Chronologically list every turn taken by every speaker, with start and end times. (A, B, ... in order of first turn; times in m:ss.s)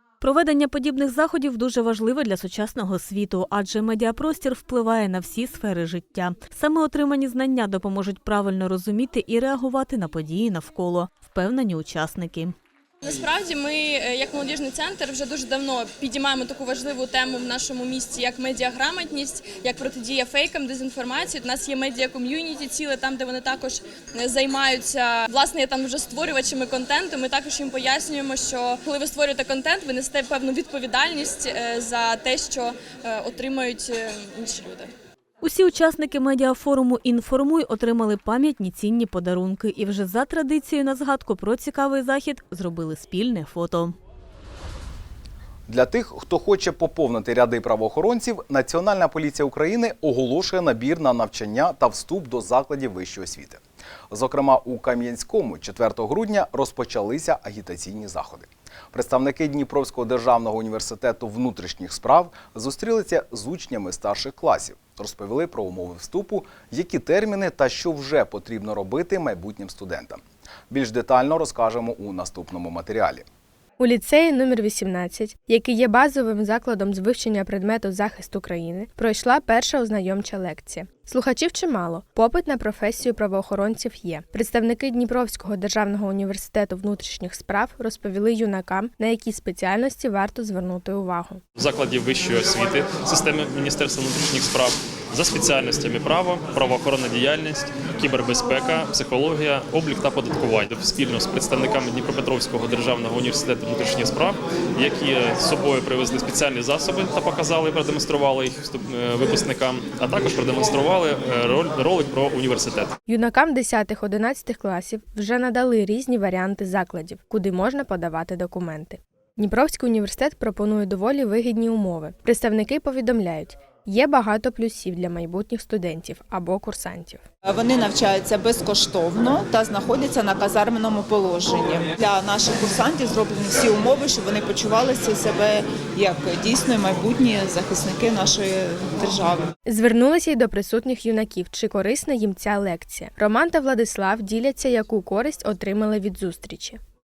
0:00.2-0:12.5 A
0:13.0-0:34.9 B
0:35.4-0:44.0 A
0:45.7-1:13.2 C
1:13.8-1:31.4 D
1:31.6-1:53.0 E
1:53.1-2:07.2 D
2:07.4-2:19.5 F
2:19.7-2:26.8 D